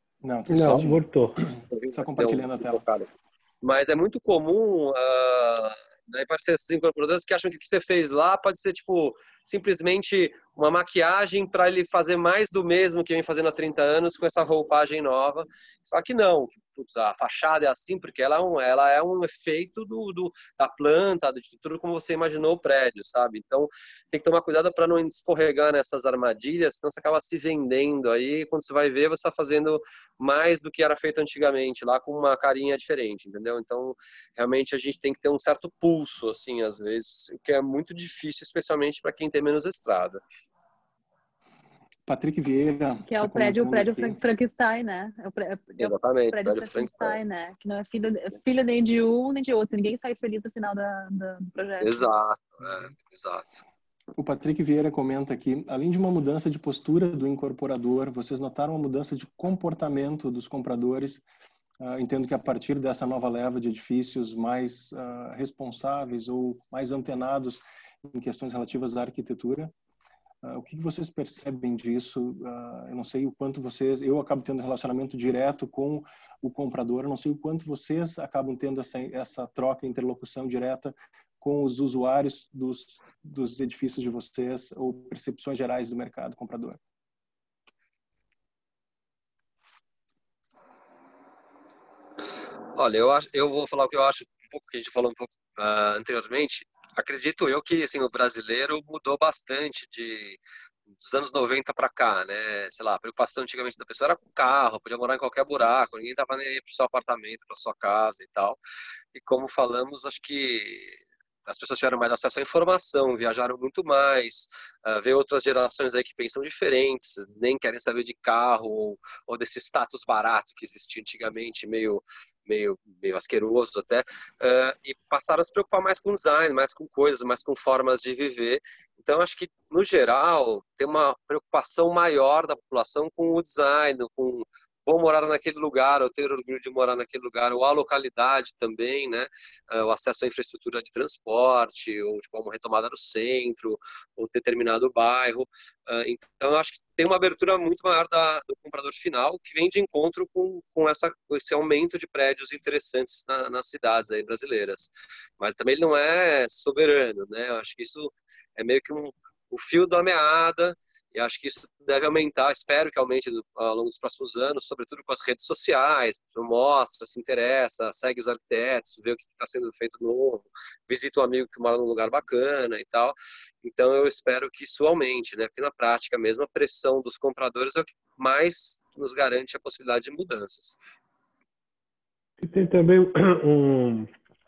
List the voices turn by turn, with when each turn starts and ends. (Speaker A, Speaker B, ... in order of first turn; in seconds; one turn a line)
Speaker A: 0.2-2.8
Speaker B: 0.5-1.4
Speaker C: 1.7-3.1
Speaker C: 3.6-40.2
Speaker A: 42.1-44.2
Speaker D: 43.1-52.1
Speaker C: 45.8-47.2
Speaker C: 51.8-53.6
Speaker A: 54.1-61.2
Speaker A: 61.8-69.7
Speaker A: 70.4-86.8
Speaker C: 92.8-100.4
Speaker C: 101.0-108.6
Speaker C: 109.1-180.8
Speaker B: 182.4-184.1